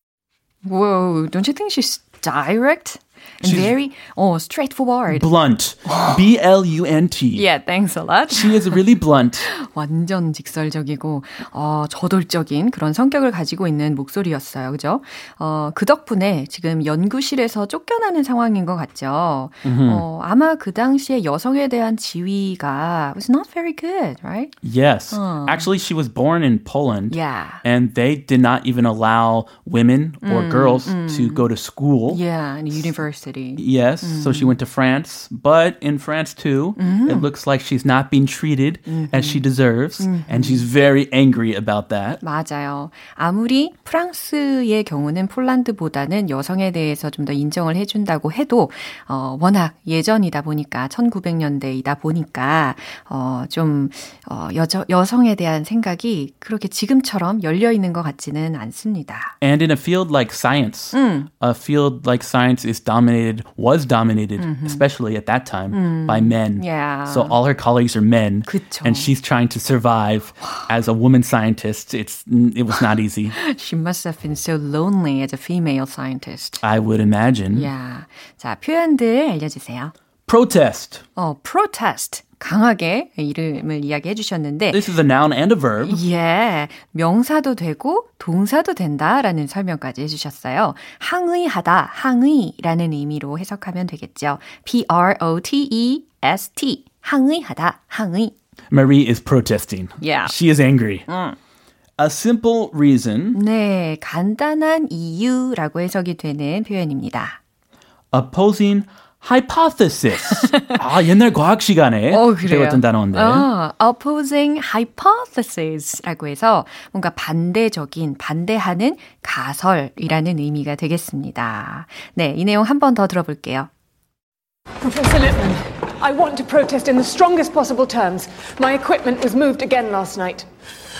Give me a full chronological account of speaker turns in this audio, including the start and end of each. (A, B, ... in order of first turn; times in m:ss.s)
0:00.6-0:05.3 A
0:03.4-0:03.7 B
0:05.1-0:07.4 B
0:05.8-0:06.2 A
0:07.3-0:08.8 A
0:08.3-0:09.5 B
0:09.5-0:24.5 A
0:19.6-0:20.0 B
0:24.6-0:32.2 B
0:25.1-0:25.7 A
0:27.1-0:27.6 A
0:30.2-0:31.4 A
0:32.1-0:34.5 A
0:33.6-0:42.2 B
0:36.8-0:37.3 A
0:38.9-0:39.4 A
0:40.0-0:40.6 A
0:42.2-0:59.4 A
0:59.4-1:13.4 B
1:00.9-1:01.3 A
1:04.4-1:04.8 A
1:05.7-1:07.4 A
1:08.4-1:09.1 A
1:13.3-1:16.6 A
1:16.6-1:17.7 B
1:17.5-1:19.9 A
1:20.3-1:21.0 B
1:21.2-1:24.8 A
1:24.7-1:26.0 B
1:25.8-1:38.3 A
1:38.7-1:41.0 B
1:40.0-1:40.3 A
1:41.1-1:41.4 A
1:42.0-1:43.4 B
1:43.3-1:47.4 A
1:48.1-1:53.5 B
1:50.3-1:50.8 A
1:52.1-2:03.7 A
2:04.8-2:10.5 C